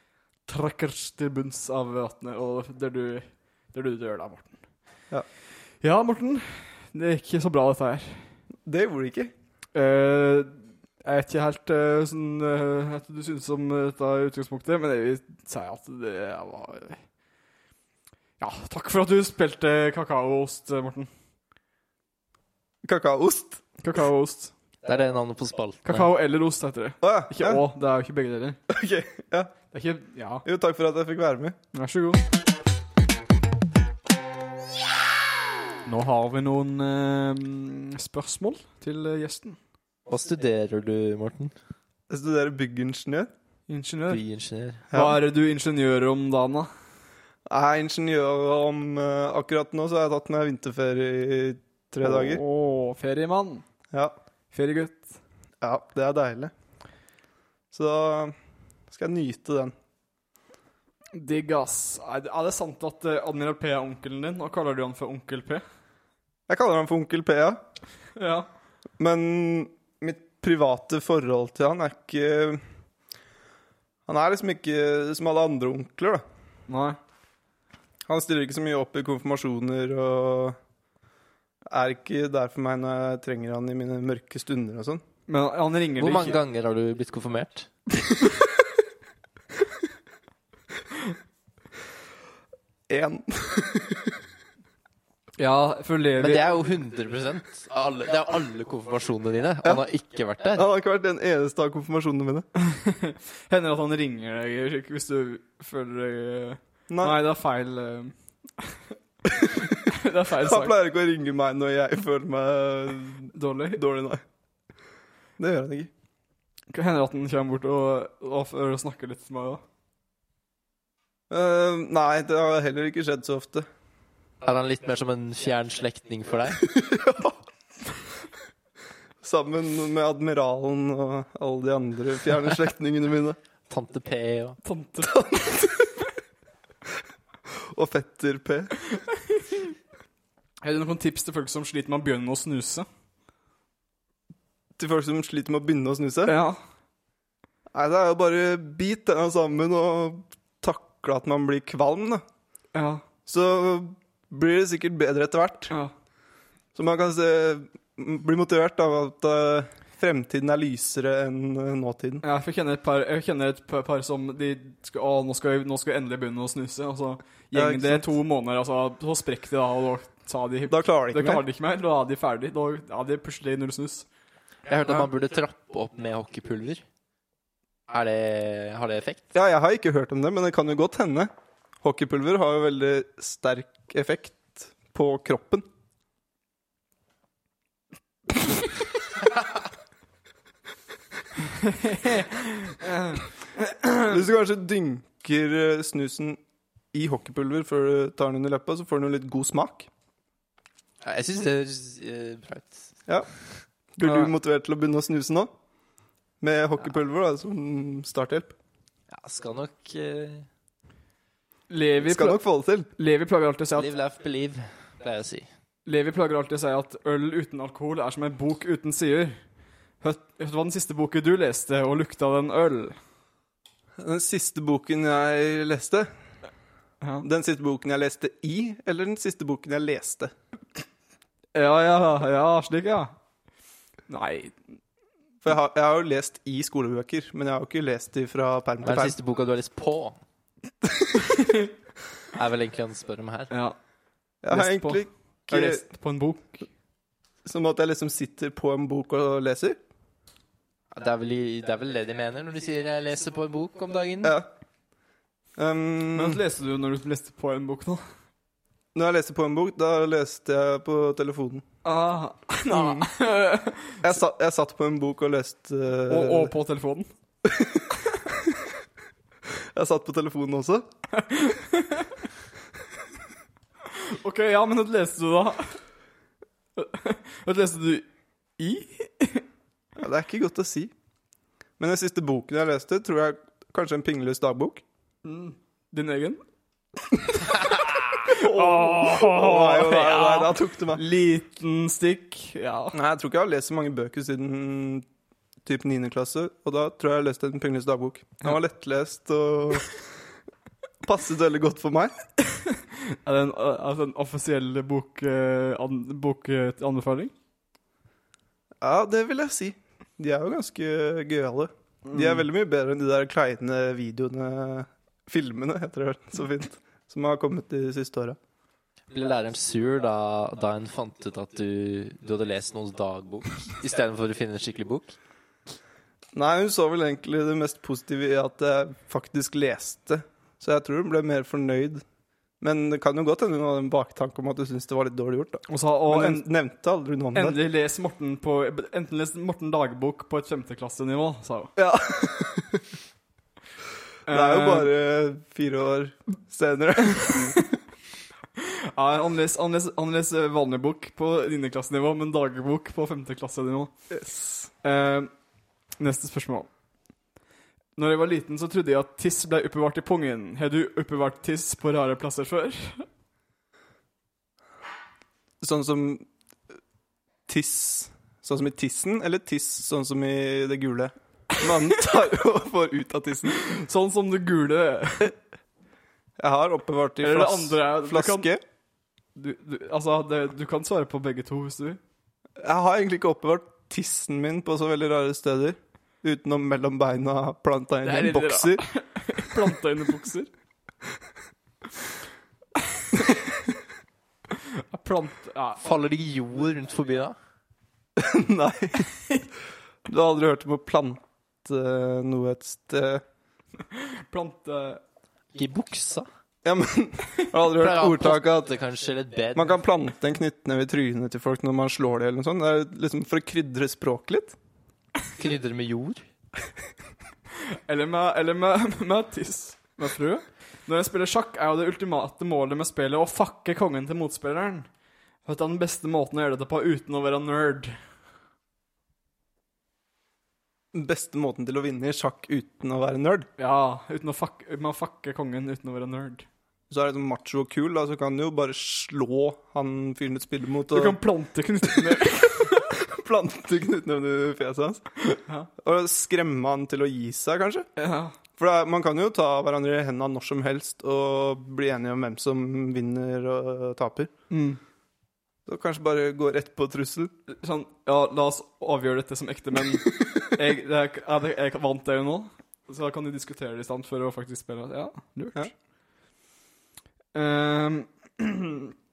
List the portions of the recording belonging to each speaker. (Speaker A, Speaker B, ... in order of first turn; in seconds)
Speaker A: 0.5-4.6, 5.8-8.2, 9.7-17.0, 18.4-21.1, 23.8-24.5, 25.8-28.6, 29.7-30.4, 31.7-32.2, 35.9-39.6, 43.7-44.2, 44.9-46.7, 52.0-53.6, 54.5-55.1, 61.1-65.6, 68.2-68.5, 76.7-77.0, 85.3-86.4, 95.4-96.5, 102.6-108.8, 109.7-110.7, 113.3-113.8, 116.7-119.6, 134.6-135.2, 140.6-142.9, 146.2-146.6, 152.7-153.0, 162.2-174.1, 191.6-194.2, 204.0-204.3, 211.7-212.4, 212.9-213.9, 215.8-219.4, 220.0-223.0, 231.5-233.1, 234.1-234.6, 241.2-241.7, 243.5-243.8, 244.5-246.7, 256.1-258.0, 261.8-264.1, 266.1-267.1, 271.1-272.2, 273.9-275.8, 276.8-278.1, 278.6-279.4, 285.2-286.4, 287.3-292.9, 302.6-307.3, 312.0-312.4, 335.7-336.5, 337.3-341.7, 344.3-344.9, 347.3-347.6, 348.6-353.9, 354.8-355.3, 356.0-356.7, 358.0-363.1, 373.5-375.3, 377.2-378.5, 379.4-382.0, 388.0-390.5, 394.9-395.8, 403.9-405.0, 417.7-424.9, 425.4-428.0, 433.6-436.4, 440.9-442.9, 445.3-445.7, 448.0-448.3, 454.5-454.8, 457.5-465.7, 467.3-468.9
Speaker B: 8.7-9.3, 22.8-23.6, 27.0-27.6, 28.7-29.5, 30.4-31.6, 42.1-43.3, 44.9-45.2, 47.5-52.4, 55.6-56.5, 57.7-58.3, 58.9-59.7, 66.5-67.6, 69.0-72.6, 74.1-76.2, 78.1-80.6, 81.7-85.0, 92.9-94.1, 100.5-102.5, 106.9-107.2, 110.4-114.2, 115.4-115.9, 121.3-123.7, 126.6-127.3, 129.2-133.4, 135.0-135.9, 137.7-138.7, 144.8-146.3, 147.7-152.2, 153.2-155.7, 156.7-162.2, 167.5-168.1, 170.7-171.4, 179.3-181.3, 181.8-185.6, 194.0-196.4, 196.9-199.9, 203.9-205.5, 206.4-208.5, 212.0-212.9, 224.0-226.1, 227.2-230.3, 235.4-239.2, 244.4-245.8, 247.4-249.8, 254.2-254.5, 255.6-256.4, 258.9-261.6, 262.7-263.1, 264.0-266.5, 267.4-268.4, 269.7-270.9, 280.0-280.9, 281.8-284.8, 288.2-291.0, 292.9-295.0, 295.6-299.9, 301.0-302.1, 308.8-318.4, 326.3-332.0, 332.6-337.6, 341.8-342.8, 344.3-347.6, 354.1-354.7, 365.6-366.2, 367.5-373.6, 376.4-378.6, 382.6-388.8, 398.2-399.1, 400.1-403.2, 406.6-408.6, 409.5-414.6, 430.9-433.5, 436.9-441.2, 443.0-445.1, 445.8-447.9, 448.6-454.3, 455.7-457.3
Speaker C: 24.8-26.1, 40.1-41.5, 44.1-44.8, 86.0-87.7, 96.2-100.7, 124.4-126.6, 133.7-134.6, 174.7-176.8, 177.9-179.2, 201.0-202.9, 209.1-210.5, 213.7-215.5, 238.8-240.2, 242.3-243.5, 250.9-254.4, 319.1-325.2, 395.8-397.4, 405.5-406.3, 407.7-409.8, 415.3-416.2